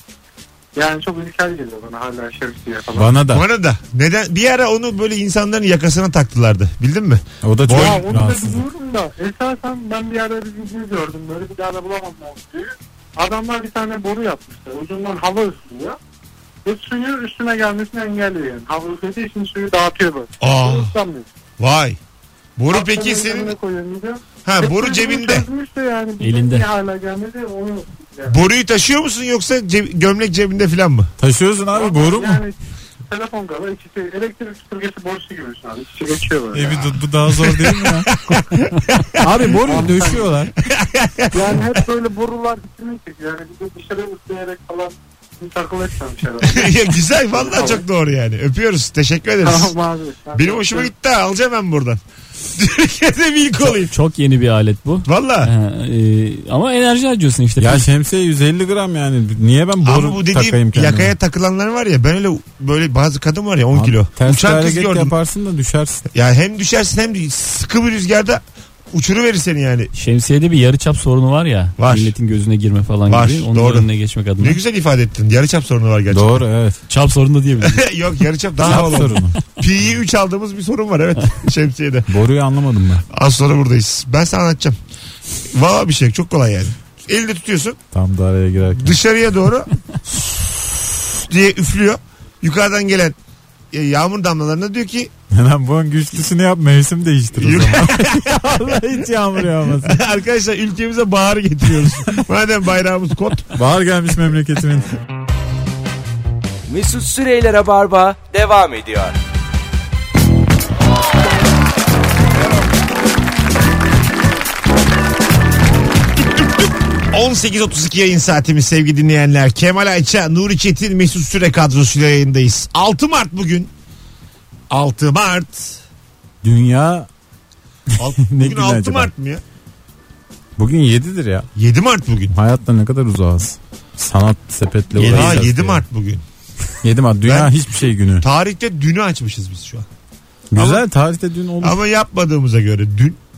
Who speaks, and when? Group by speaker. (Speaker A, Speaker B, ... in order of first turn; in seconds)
Speaker A: 0.8-3.2, 7.7-16.0, 16.6-21.3, 22.7-28.4, 31.7-32.6, 33.1-36.8, 39.6-40.4, 41.3-46.8, 47.3-47.8, 49.4-50.9
Speaker B: 3.0-3.4, 7.4-8.7, 31.2-32.4, 36.5-38.1, 39.2-40.5, 57.6-61.1, 63.7-66.0, 76.1-76.8, 78.6-79.4, 82.1-83.0, 87.9-89.0, 95.3-100.0, 103.5-104.9, 126.4-127.1, 128.3-129.1, 130.6-131.5, 132.3-135.8, 136.8-138.3, 140.5-141.8
Speaker C: 3.3-8.2, 20.4-20.9, 21.6-22.0, 22.6-23.6, 24.4-25.5, 28.3-31.1, 36.8-39.2, 40.6-41.6, 46.4-49.7, 50.4-52.0, 52.6-53.9, 55.1-55.5, 59.8-65.1, 66.1-68.4, 68.9-69.9, 71.8-72.1, 73.1-73.9, 74.4-76.5, 77.6-82.1, 83.1-84.8, 85.5-87.8, 88.8-93.2, 93.7-95.1, 97.4-98.4, 99.8-103.6, 117.1-123.7, 124.7-125.8, 128.0-129.4, 131.6-132.3, 135.0-136.2, 137.2-139.9, 140.6-140.8, 141.6-143.2
Speaker D: 26.2-26.6, 53.6-57.9, 69.9-74.6, 76.9-77.8, 135.0-135.3
Speaker E: 106.7-109.2